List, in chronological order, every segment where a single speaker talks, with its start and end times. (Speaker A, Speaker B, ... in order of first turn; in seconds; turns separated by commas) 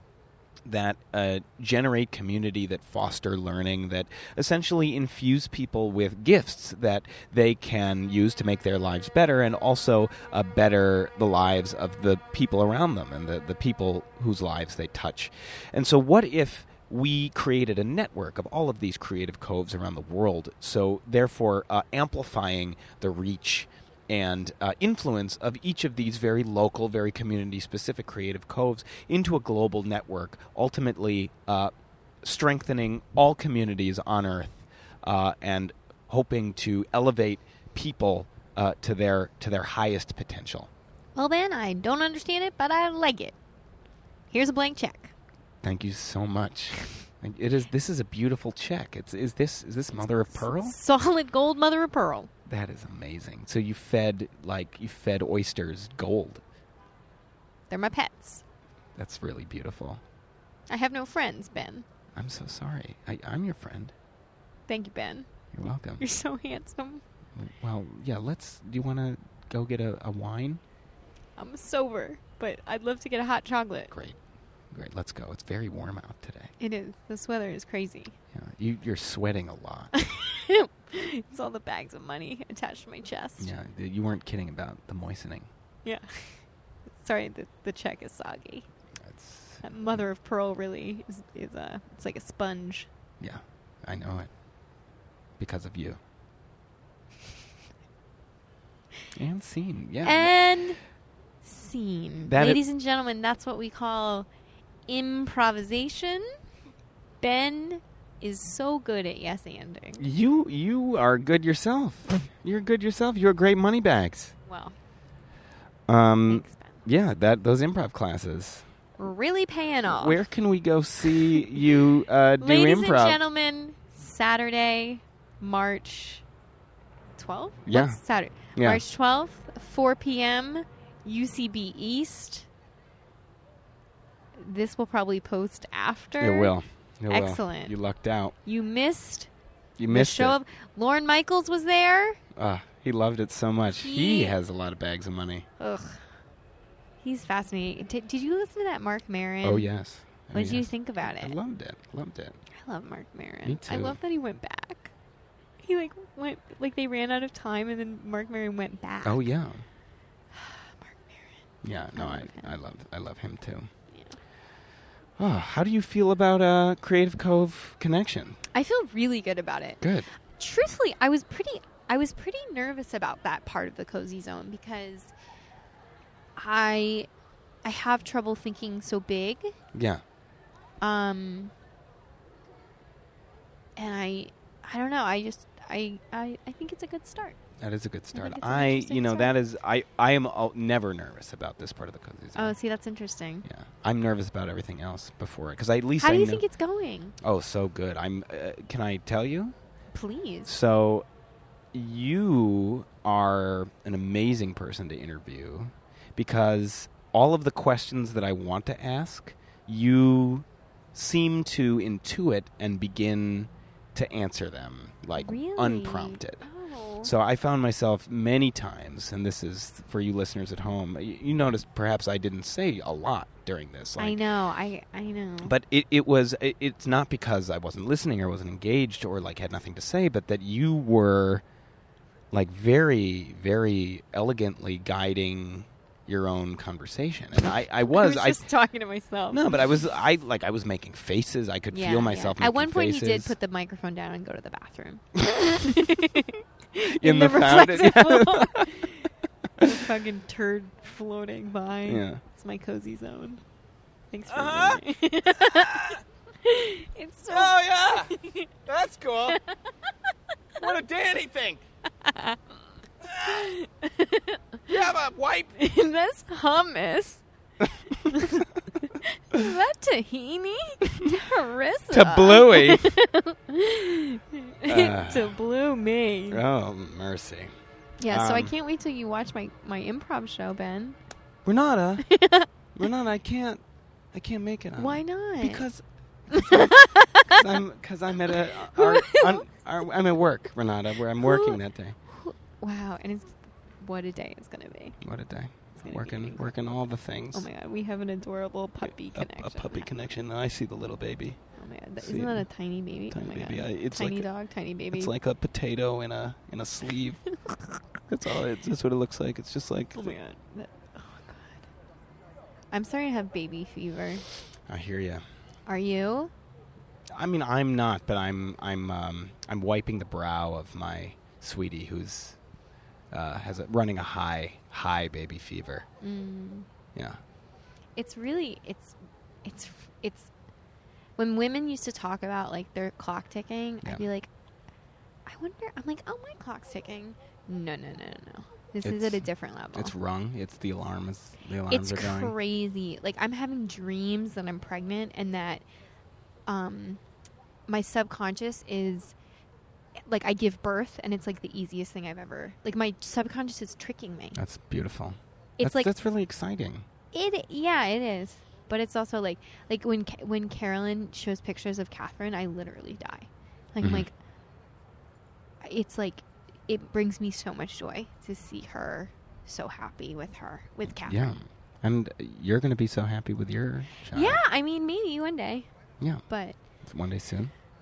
Speaker A: 0.7-40.7, Speaker B: 41.1-43.4, Speaker B: 44.3-45.1, Speaker A: 45.6-50.8, Speaker B: 50.4-52.3, Speaker A: 52.5-56.4, Speaker B: 57.7-58.4, Speaker A: 59.0-60.0, Speaker B: 60.7-61.9, Speaker A: 62.1-63.9, Speaker B: 64.7-65.3, Speaker A: 65.5-66.0, Speaker B: 66.0-67.0, Speaker A: 67.4-70.6, Speaker B: 71.4-73.9, Speaker A: 73.9-74.2, Speaker A: 74.7-76.5, Speaker B: 76.6-78.2, Speaker A: 78.3-79.9, Speaker B: 79.9-83.5, Speaker A: 83.4-85.5, Speaker B: 85.8-88.7, Speaker A: 89.0-89.6, Speaker B: 89.6-92.9, Speaker A: 93.2-94.3, Speaker A: 95.4-96.0, Speaker A: 99.1-100.5, Speaker B: 100.0-100.8, Speaker B: 101.4-104.3, Speaker A: 102.3-102.6, Speaker B: 104.9-106.3, Speaker B: 107.2-110.0, Speaker A: 110.0-114.3, Speaker B: 114.5-114.8, Speaker A: 115.9-118.7, Speaker B: 116.3-116.8, Speaker B: 119.0-120.2, Speaker A: 119.9-123.2, Speaker B: 121.1-121.5, Speaker B: 122.4-126.2, Speaker B: 127.2-132.5, Speaker A: 127.7-128.0, Speaker A: 128.6-128.8, Speaker B: 134.4-136.5, Speaker A: 136.2-138.3, Speaker B: 137.1-137.8, Speaker B: 138.4-139.3, Speaker A: 139.8-140.4, Speaker B: 139.9-142.2, Speaker A: 142.4-145.5, Speaker B: 143.8-144.4, Speaker B: 145.6-146.1, Speaker B: 147.0-149.7, Speaker A: 149.4-152.4, Speaker B: 150.3-151.4, Speaker B: 152.6-154.9, Speaker A: 153.4-154.0, Speaker B: 155.6-159.2, Speaker A: 159.0-159.7, Speaker B: 160.3-162.5, Speaker A: 161.6-163.7, Speaker B: 163.9-164.2, Speaker A: 165.2-168.4, Speaker B: 168.5-175.1, Speaker A: 169.8-170.1, Speaker B: 176.4-177.1, Speaker B: 177.6-179.5, Speaker A: 179.7-180.0, Speaker B: 180.8-181.5, Speaker B: 183.8-187.4, Speaker A: 187.6-192.6, Speaker B: 188.1-189.3, Speaker B: 192.3-193.5, Speaker A: 193.4-196.4, Speaker B: 196.0-197.2, Speaker A: 197.2-199.6, Speaker B: 199.9-200.5, Speaker A: 200.5-201.1, Speaker A: 201.7-216.4, Speaker B: 215.2-217.1, Speaker A: 217.0-224.3, Speaker B: 224.0-225.5, Speaker A: 225.4-231.4, Speaker A: 232.3-238.4, Speaker B: 237.7-239.5, Speaker A: 239.3-243.3, Speaker B: 241.7-253.4, Speaker A: 246.8-248.9, Speaker A: 251.9-252.2, Speaker B: 254.1-258.5, Speaker A: 254.3-254.8, Speaker A: 255.3-256.0, Speaker A: 257.3-258.1, Speaker A: 258.7-259.4, Speaker B: 259.3-259.9, Speaker A: 260.6-261.6, Speaker B: 262.0-262.4, Speaker A: 263.1-263.5, Speaker B: 263.2-264.8, Speaker A: 264.7-265.5, Speaker B: 265.6-267.2, Speaker A: 267.6-268.4, Speaker B: 268.1-276.4, Speaker A: 271.9-273.0, Speaker A: 274.7-275.4, Speaker A: 276.3-277.5, Speaker B: 278.0-281.0, Speaker A: 278.1-278.5, Speaker A: 281.4-282.1, Speaker B: 282.1-282.5, Speaker A: 282.8-283.6, Speaker A: 284.1-285.8, Speaker B: 284.8-285.7, Speaker B: 286.3-287.5, Speaker A: 287.3-292.0, Speaker B: 288.7-289.4, Speaker B: 291.2-295.0, Speaker A: 295.0-297.5, Speaker B: 295.8-296.6, Speaker B: 297.3-299.9, Speaker A: 298.8-301.4, Speaker B: 301.6-305.1, Speaker A: 302.0-302.5, Speaker A: 303.1-304.3, Speaker A: 304.9-307.2, Speaker A: 308.1-310.2, Speaker B: 309.9-311.7, Speaker B: 312.7-314.3, Speaker A: 314.7-315.2, Speaker B: 315.7-316.3, Speaker A: 317.2-322.4, Speaker A: 323.1-325.9, Speaker B: 326.0-326.7, Speaker B: 328.0-330.3, Speaker B: 331.2-334.3, Speaker B: 335.3-339.9, Speaker A: 338.8-342.3, Speaker B: 341.7-345.6, Speaker B: 346.5-347.0, Speaker B: 347.7-349.1, Speaker B: 350.1-354.4, Speaker A: 354.4-356.9, Speaker B: 355.6-355.9, Speaker B: 357.1-364.1, Speaker A: 363.8-364.1, Speaker B: 365.6-371.4, Speaker A: 371.1-374.4, Speaker B: 374.0-375.7, Speaker B: 376.3-376.6, Speaker A: 376.9-377.5